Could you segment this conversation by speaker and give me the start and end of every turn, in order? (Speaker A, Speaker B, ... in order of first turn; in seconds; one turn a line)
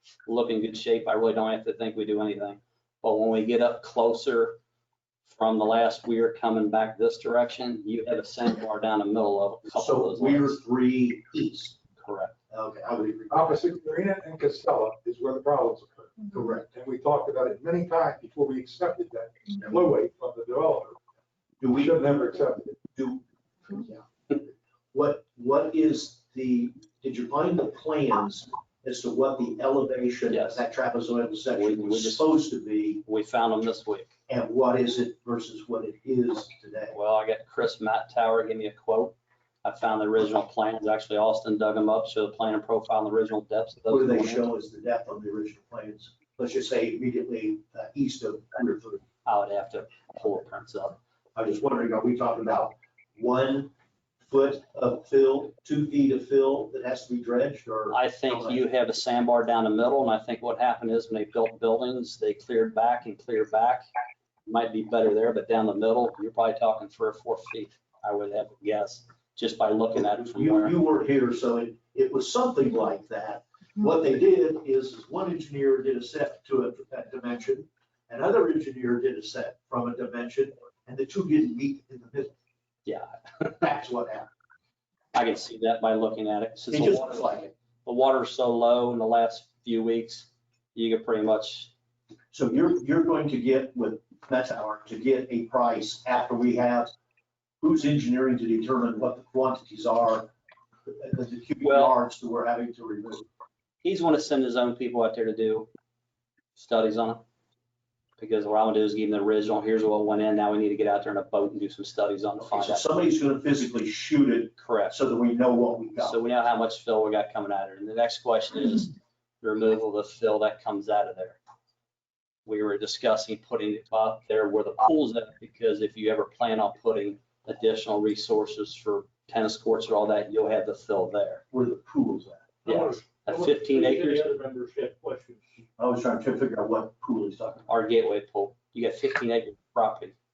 Speaker A: 0.3-4.6
Speaker A: 5.3-10.6
Speaker B: 9.7-11.8
Speaker A: 12.0-12.3
Speaker B: 12.5-13.6
Speaker C: 13.3-21.0
Speaker B: 16.3-16.6
Speaker B: 21.6-22.2
Speaker C: 21.7-22.8
Speaker B: 22.8-33.0
Speaker A: 30.3-30.6
Speaker A: 31.5-32.3
Speaker A: 33.0-34.1
Speaker B: 34.3-37.0
Speaker A: 36.9-44.5
Speaker B: 43.9-49.1
Speaker A: 49.2-51.0
Speaker B: 51.4-58.6
Speaker A: 57.9-63.8
Speaker A: 64.5-70.8
Speaker B: 70.0-82.3
Speaker A: 82.9-83.7
Speaker B: 83.6-84.3
Speaker A: 85.1-91.7
Speaker B: 86.7-87.5
Speaker B: 92.3-96.9
Speaker B: 97.6-100.3
Speaker B: 100.9-103.3
Speaker A: 101.6-102.0
Speaker A: 103.8-105.7
Speaker A: 106.6-107.2
Speaker A: 108.2-112.9
Speaker B: 112.4-116.2
Speaker A: 114.6-115.0
Speaker A: 116.0-121.4
Speaker A: 122.5-131.4
Speaker B: 131.5-132.6
Speaker A: 132.7-134.3
Speaker D: 132.8-135.4
Speaker B: 135.8-137.7
Speaker A: 137.7-140.1